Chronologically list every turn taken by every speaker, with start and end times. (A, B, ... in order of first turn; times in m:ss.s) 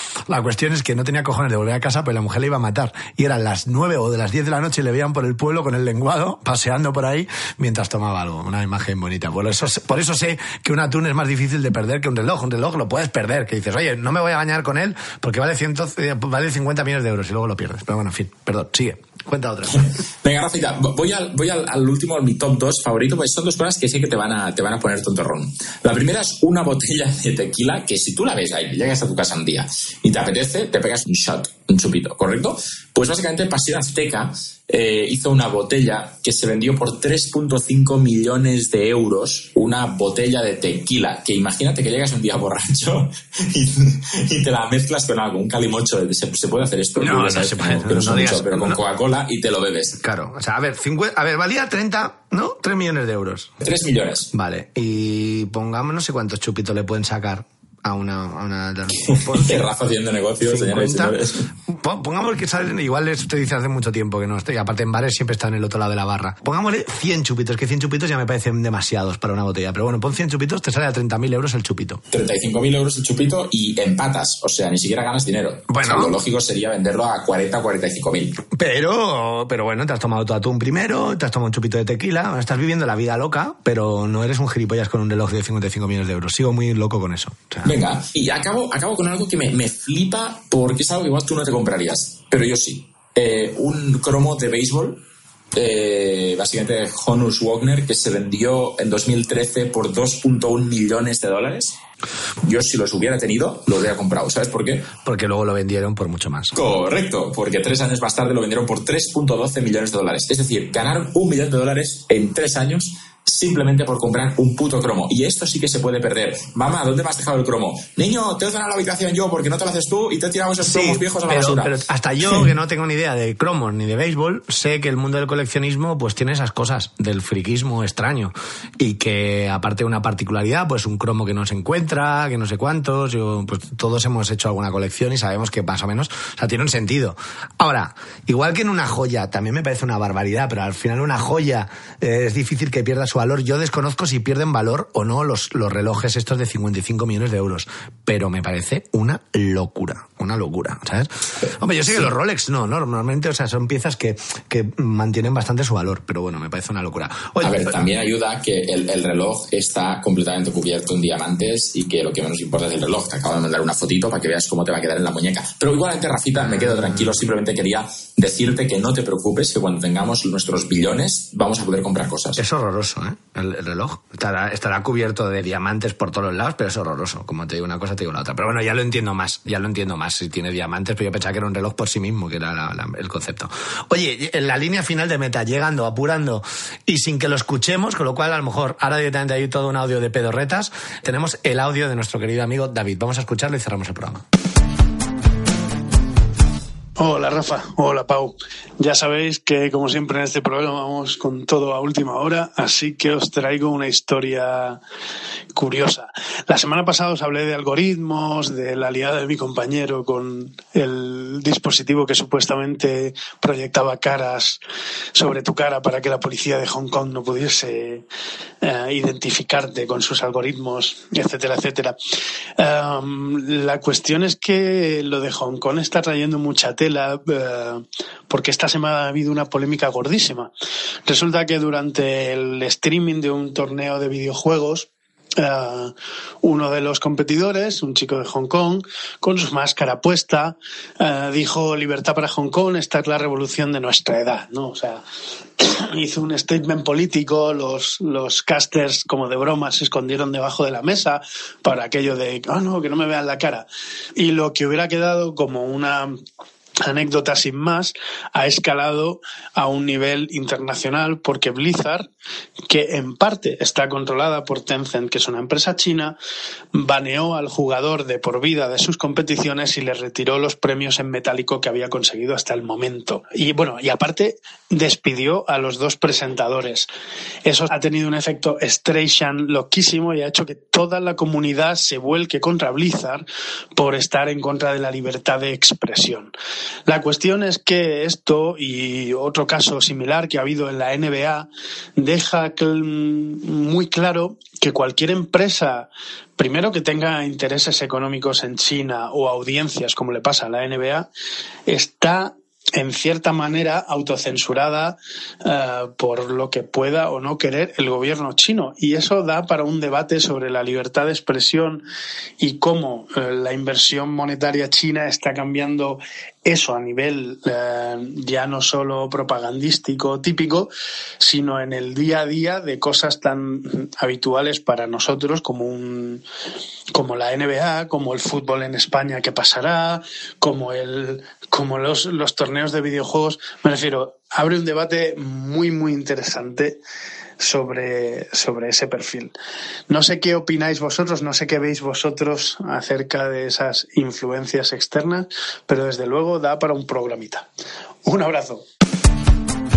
0:00.3-0:19.9 A
0:19.7-0:50.0 B
0:47.0-0:48.8 A
0:50.0-0:53.5 A
0:53.6-0:54.3 B
0:54.3-0:59.6 A
0:59.0-1:01.5 B
1:00.4-1:01.2 A
1:01.7-1:12.0 A
1:12.1-1:18.4 B
1:15.7-1:16.1 A
1:18.5-1:27.7 A
1:27.6-1:41.8 B
1:42.4-1:44.9 B
1:45.0-1:46.5 A
1:46.5-2:01.7 B
2:00.6-2:37.7 A
2:31.4-2:32.1 B
2:37.4-2:52.4 B
2:46.4-2:47.2 A
2:52.4-3:14.2 A
3:17.0-3:24.8 C
3:25.5-3:34.6 C
3:35.1-3:38.0 C
3:38.6-3:42.0 C
3:42.6-3:50.5 C
3:51.0-4:05.0 C
4:05.6-4:16.2 C
4:16.8-4:22.1 C
4:22.7-4:26.2 C
4:26.7-4:36.9 C
4:37.4-4:43.2 C
4:43.8-4:46.3 C
4:46.9-5:01.1 C
5:01.7-5:11.8 C
5:12.4-5:26.2 C
5:26.9-5:36.8 C
5:37.4-5:39.3 C
5:39.9-5:47.5 C
5:48.0-5:48.6 C